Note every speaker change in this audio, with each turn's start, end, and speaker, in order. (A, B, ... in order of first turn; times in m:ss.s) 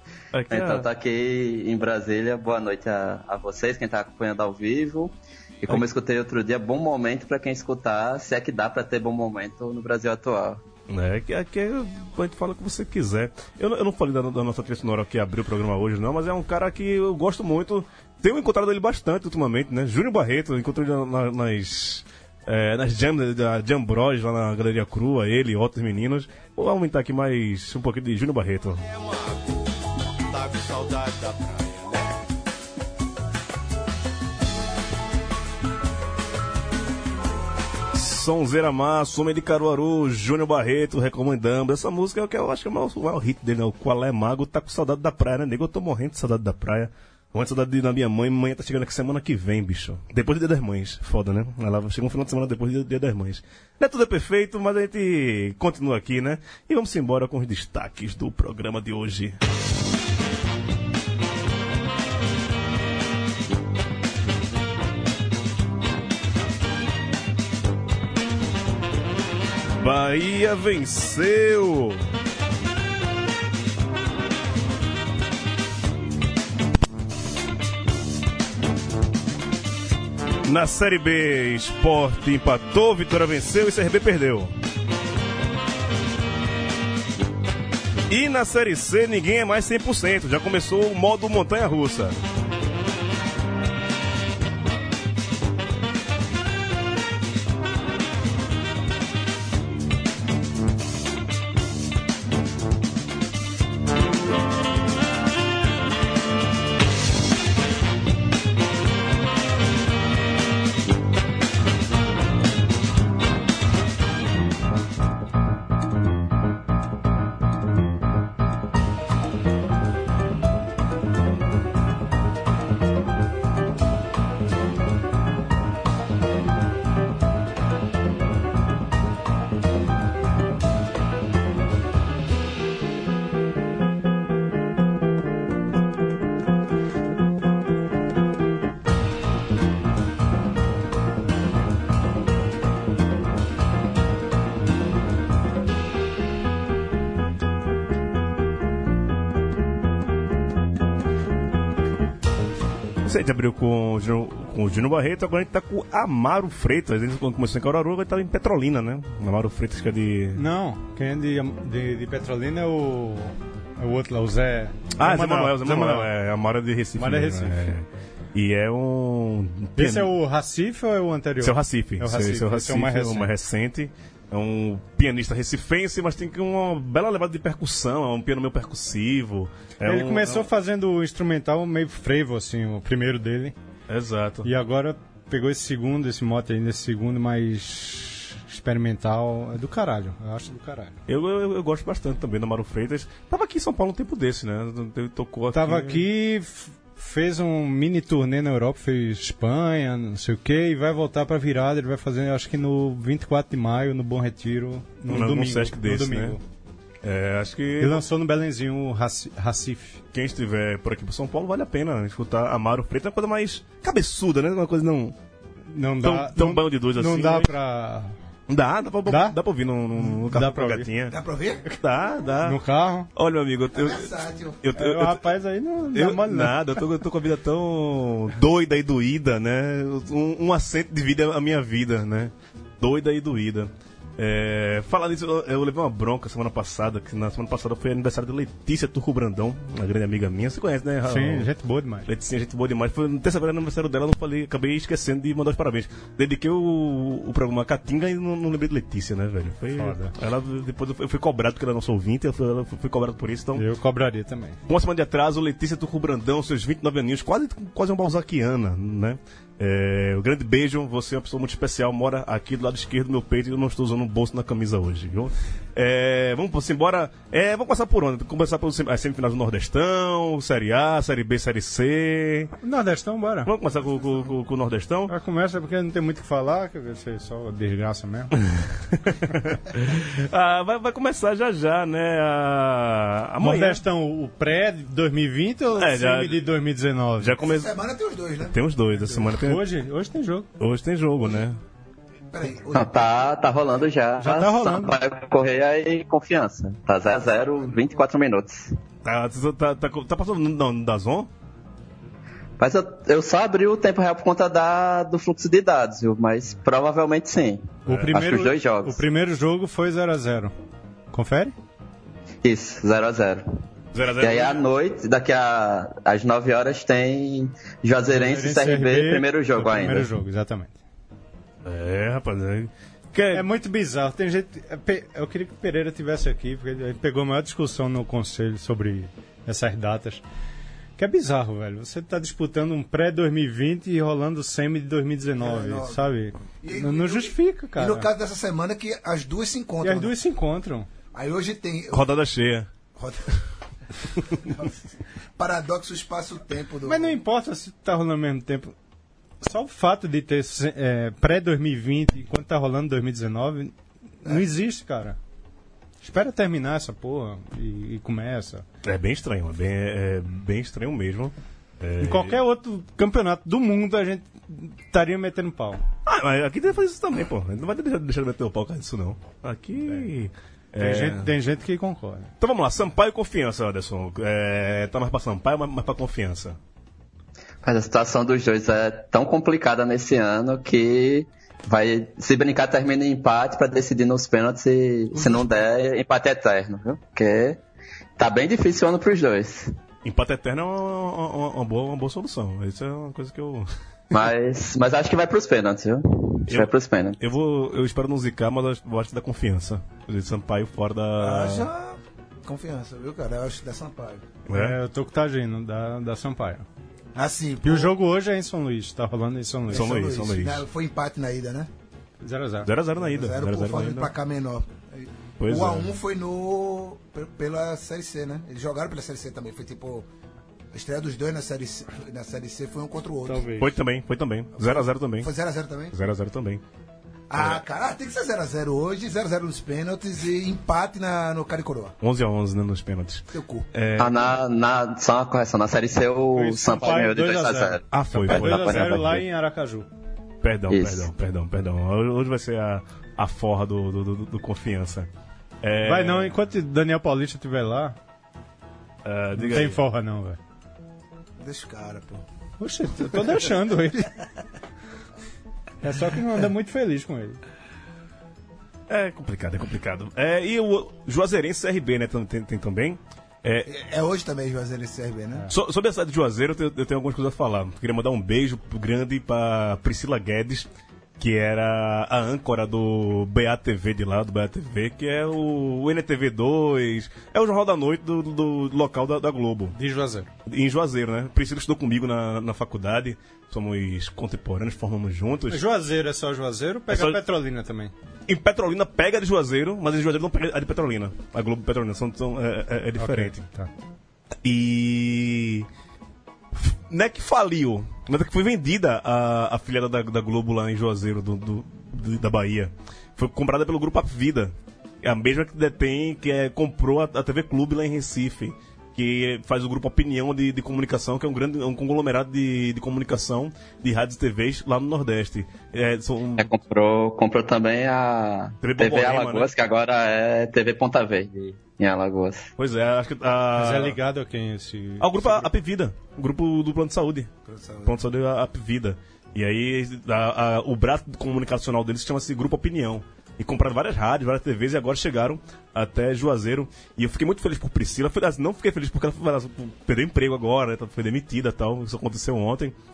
0:00.3-0:00.9 A
0:00.5-0:10.6 B
0:10.9-0:28.8 A
0:28.9-0:29.6 C
0:30.2-0:32.2 C
0:37.9-0:59.4 A
1:09.8-1:12.0 A
1:20.4-1:24.5 A
1:28.1-1:32.2 A
2:33.0-2:40.4 A
2:40.3-2:46.1 D
2:45.0-2:50.1 A
2:47.0-2:47.8 D
2:49.8-2:53.3 D
2:51.4-3:00.5 A
2:59.8-3:03.6 D
3:03.9-3:04.5 A
3:04.4-3:11.0 D
3:11.1-3:16.1 A
3:15.5-3:26.4 D
3:25.1-3:26.4 A
3:27.0-3:28.0 A
3:27.8-3:30.0 D
3:30.1-3:35.1 A
3:35.7-3:38.1 D
3:36.0-3:37.5 A
3:38.5-3:41.2 A
3:39.0-3:39.4 D
3:40.0-3:40.9 D
3:41.1-3:41.6 E
3:41.7-3:42.6 A
3:42.4-3:43.1 D
3:43.1-3:45.3 A
3:43.7-3:44.6 E
3:44.7-3:46.8 D
3:45.9-4:01.5 A
4:01.0-4:02.1 D
4:02.0-4:13.6 A
4:09.8-4:10.1 D
4:13.5-4:14.6 D
4:14.7-4:32.5 A
4:32.6-4:33.5 D
4:33.4-4:35.1 A
4:35.1-4:38.4 D
4:38.3-4:43.8 A
4:43.4-4:47.3 D
4:45.8-4:46.4 A
4:47.2-4:47.7 A
4:47.4-4:49.3 E
4:48.4-4:49.6 A
4:49.3-4:50.5 D
4:50.6-4:51.6 A
4:52.3-4:53.3 E
4:52.7-4:58.7 B
4:54.2-4:54.9 D
4:59.0-5:01.3 A
5:02.6-5:09.0 B
5:07.8-5:08.1 A
5:07.8-5:10.5 D
5:11.1-5:11.5 D
5:12.4-5:13.4 B
5:13.9-5:14.6 A
5:14.2-5:20.1 B
5:18.1-5:20.8 D
5:21.6-5:23.5 A
5:23.3-5:30.2 D
5:31.0-5:38.1 D
5:35.4-5:40.1 E
5:39.8-5:40.9 D
5:41.1-5:42.0 E
5:41.9-5:42.7 A
5:42.9-5:43.3 E
5:44.4-5:47.2 E
5:46.8-5:48.7 D
5:49.4-5:55.2 D
5:56.0-5:58.6 D
5:58.8-6:02.4 A
6:02.0-6:05.8 D
6:06.0-6:11.3 A
6:10.8-6:12.3 D
6:12.4-6:16.6 A
6:17.6-6:27.6 B
6:28.2-6:29.7 B
6:30.0-6:33.7 A
6:34.1-6:37.2 B
6:36.5-6:41.7 A
6:41.2-6:44.2 E
6:44.5-6:44.8 A
6:44.5-6:46.6 D
6:47.1-6:47.9 E
6:47.6-6:49.9 D
6:49.7-6:51.7 E
6:49.7-6:50.6 A
6:52.2-6:52.7 D
6:52.6-6:54.1 A
6:53.0-7:00.1 E
6:55.4-6:55.9 A
7:00.7-7:03.5 E
7:03.2-7:03.7 D
7:03.6-7:05.3 A
7:04.5-7:05.9 E
7:05.9-7:06.6 A
7:07.3-7:12.0 E
7:07.4-7:07.6 A
7:12.0-7:14.4 A
7:13.3-7:13.7 E
7:14.0-7:19.0 B
7:16.3-7:19.9 D
7:17.9-7:19.2 A
7:20.4-7:25.1 A
7:20.7-7:21.1 B
7:25.6-7:26.4 A
7:25.8-7:28.0 D
7:29.0-7:29.8 A
7:29.4-7:30.4 D
7:31.4-7:32.2 E
7:32.6-7:34.1 D
7:35.8-7:37.4 D
7:38.9-7:43.7 A
7:43.6-7:45.5 E
7:45.5-7:50.7 A
7:51.2-7:59.8 A
7:59.7-8:00.3 D
8:00.5-8:05.6 A
8:05.5-8:07.9 D
8:06.9-8:07.2 A
8:08.3-8:13.4 A
8:13.0-8:13.7 D
8:14.4-8:15.7 A
8:16.5-8:36.5 A
8:36.4-8:42.5 B
8:38.6-8:39.5 A
8:42.6-8:44.0 A
8:43.5-8:45.5 D
8:45.0-8:47.3 A
8:47.4-8:48.0 E
8:47.8-9:02.7 A